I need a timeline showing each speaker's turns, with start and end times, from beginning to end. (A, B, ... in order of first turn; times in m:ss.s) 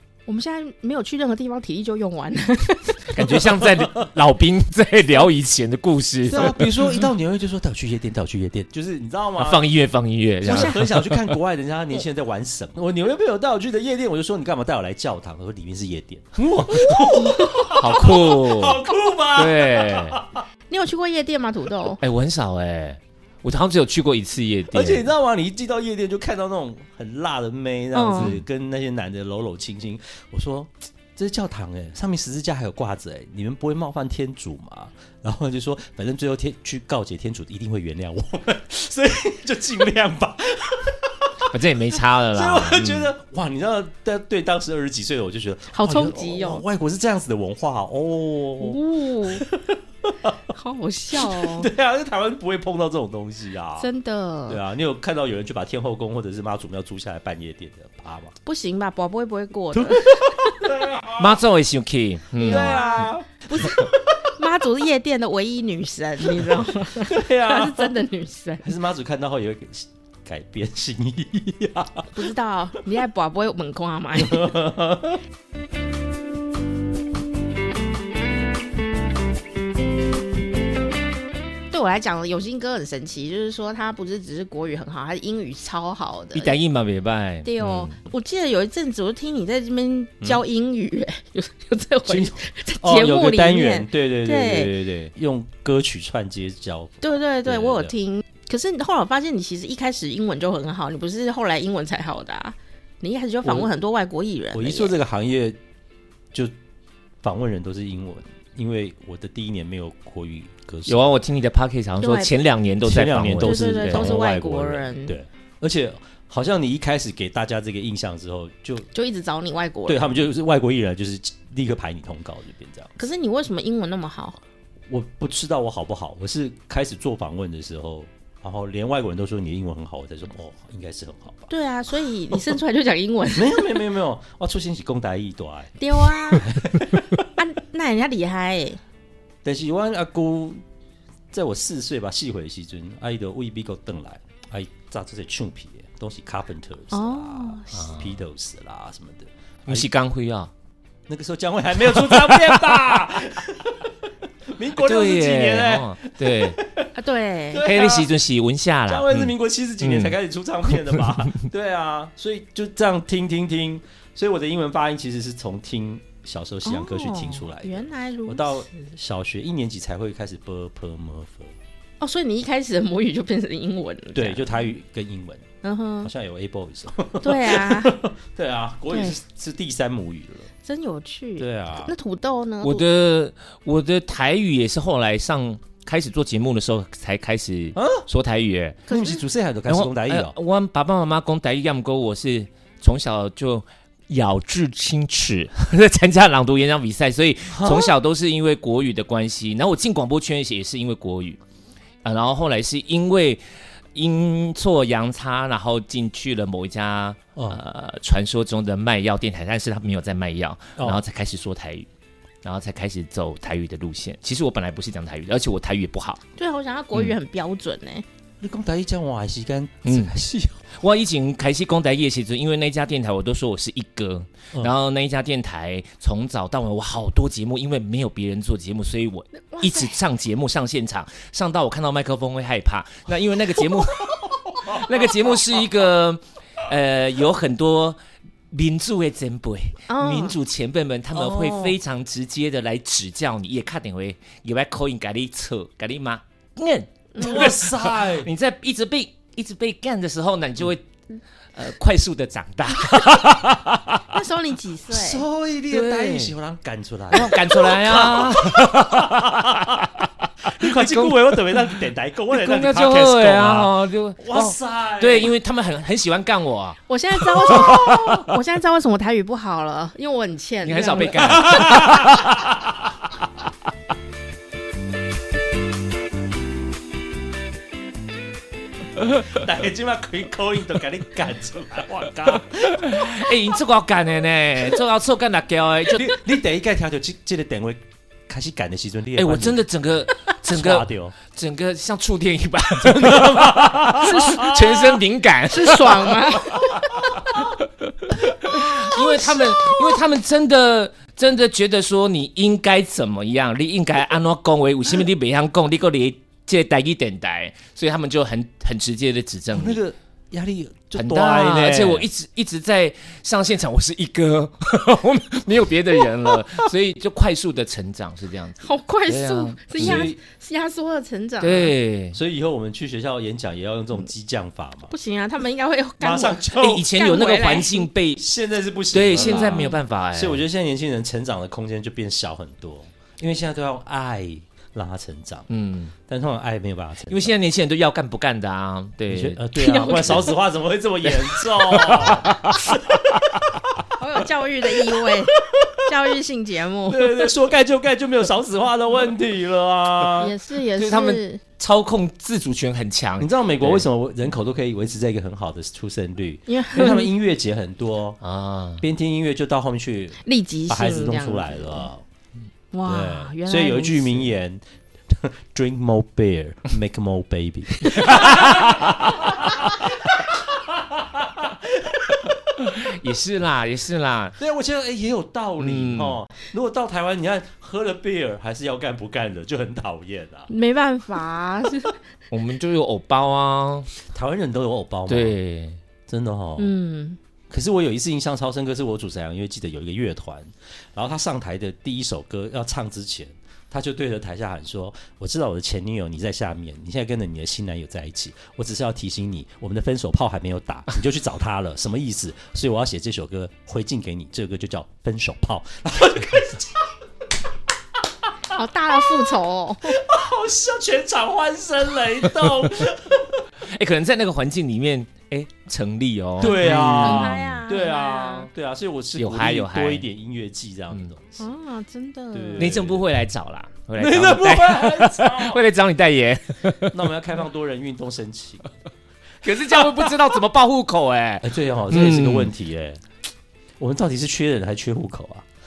0:00.3-0:03.4 A
0:03.1-0:07.0 B
0:03.6-0:04.0 C
0:06.3-0:09.6 C
0:09.4-0:11.4 B
0:10.4-0:20.4 C
0:10.5-0:10.8 A
0:17.0-0:17.7 A
0:17.6-0:20.2 B
0:20.7-0:22.0 A
0:22.0-0:25.1 B
0:24.7-0:41.5 C
0:27.9-0:28.3 A
0:28.1-0:28.4 B
0:41.5-0:43.1 B
0:42.3-0:50.4 C
0:45.7-0:46.6 A
0:48.6-0:49.4 A
0:50.5-0:51.7 A
0:51.1-0:53.9 C
0:53.8-0:54.6 A
0:54.5-0:58.3 C
0:58.4-1:00.7 A
0:59.7-1:01.4 C
1:01.1-1:02.9 B
1:02.4-1:08.7 A
1:02.4-1:04.0 C
1:07.0-1:08.0 C
1:08.6-1:12.1 C
1:12.1-1:14.6 A
1:14.2-1:15.2 C
1:21.7-1:26.5 A
1:26.4-1:27.9 B
1:27.4-1:34.7 A
1:32.0-1:37.9 C
1:37.0-1:45.0 A
1:43.4-1:43.7 C
1:44.5-1:45.6 C
1:47.2-1:51.0 C
1:50.9-1:54.2 B
1:52.0-1:52.3 A
1:52.8-1:58.9 C
1:53.4-1:55.2 A
1:58.9-2:00.1 A
1:59.9-2:02.9 C
2:03.0-2:04.4 A
2:04.9-2:11.5 C
2:11.5-2:13.7 A
2:12.3-2:12.6 C
2:13.4-2:17.2 C
2:15.8-2:16.6 A
2:17.4-2:18.8 A
2:19.4-2:20.6 C
2:21.3-2:29.9 C
2:26.9-2:27.9 A
2:27.7-2:28.1 B
2:29.6-2:30.5 B
2:31.1-2:36.9 C
2:31.8-2:33.0 B
2:34.8-2:36.6 B
2:36.9-2:37.6 A
2:37.5-2:38.1 C
2:37.6-2:40.2 B
2:38.9-2:51.5 C
2:40.7-2:41.1 B
2:46.6-2:48.8 A
2:52.0-2:54.6 A
2:54.1-2:55.4 C
2:55.6-2:56.1 A
2:56.0-3:00.5 C
2:57.2-2:58.0 A
2:58.9-2:59.2 A
3:00.6-3:02.8 A
3:01.4-3:01.9 C
3:02.6-3:09.0 B
3:07.8-3:08.0 C
3:08.9-3:09.2 A
3:08.9-3:10.4 C
3:09.7-3:21.4 B
3:17.5-3:17.9 C
3:22.0-3:23.4 B
3:23.9-3:31.9 B
3:27.4-3:27.6 C
3:30.8-3:31.0 C
3:32.4-3:36.2 B
3:36.4-3:38.0 A
3:38.4-3:40.6 C
3:39.9-3:40.1 B
3:40.8-3:58.0 B
3:49.4-3:50.0 A
3:54.7-3:55.1 C
3:58.5-4:10.8 B
3:59.9-4:00.4 A
4:01.1-4:01.7 C
4:07.1-4:07.4 A
4:07.2-4:08.3 C
4:11.5-4:14.0 B
4:14.1-4:15.2 A
4:14.9-4:19.9 C
4:15.7-4:16.4 B
4:17.1-4:26.8 B
4:20.4-4:25.3 C
4:26.9-4:31.7 A
4:27.4-4:28.2 B
4:30.6-4:32.5 B
4:31.1-4:32.9 C
4:39.1-4:43.0 C
4:42.7-4:46.2 B
4:45.9-4:49.6 C
4:49.2-5:09.8 B
4:50.4-4:51.1 C
4:52.8-4:55.0 C
4:54.0-4:54.5 A
4:55.5-4:57.4 A
4:58.9-4:59.9 A
5:09.5-5:12.1 C
5:10.9-5:20.1 B
5:18.6-5:21.7 A
5:19.8-5:20.2 C
5:21.4-5:22.2 B
5:22.1-5:24.9 C
5:24.9-5:27.9 A
5:26.0-5:26.9 C
5:26.6-5:28.2 B
5:28.2-5:35.5 C
5:28.9-5:30.4 B
5:29.2-5:29.8 A
5:35.5-5:35.9 B
5:36.0-5:37.3 C
5:37.1-5:40.3 B
5:39.1-5:43.8 C
5:39.6-5:40.3 A
5:41.1-5:42.8 B
5:44.0-5:47.4 A
5:44.9-5:45.8 C
5:46.9-5:50.3 C
5:50.2-5:51.4 A
5:50.8-5:53.9 B
5:53.2-5:58.2 C
5:56.5-5:57.1 A
5:58.2-5:58.8 B
5:58.8-6:02.0 C
6:00.2-6:01.9 A
6:02.7-6:04.3 A
6:02.9-6:12.5 C
6:08.0-6:08.9 B
6:12.6-6:14.4 B
6:14.4-6:20.5 C
6:15.6-6:16.2 B
6:20.5-6:21.9 A
6:22.3-6:23.9 B
6:24.1-6:25.4 C
6:25.1-6:25.8 B
6:26.1-6:26.7 C
6:26.6-6:27.2 A
6:27.5-6:46.9 C
6:48.5-6:50.0 A
6:49.9-6:53.4 C
6:52.4-6:52.7 B
6:53.7-6:57.6 B
6:56.4-7:01.4 C
6:56.4-6:58.5 A
6:59.2-7:00.0 B
7:01.4-7:02.8 A
7:02.3-7:03.1 C
7:02.6-7:07.0 B
7:04.0-7:05.6 C
7:06.9-7:08.7 C
7:09.4-7:12.5 B
7:09.5-7:10.2 C
7:11.4-7:13.0 C
7:13.8-7:15.4 C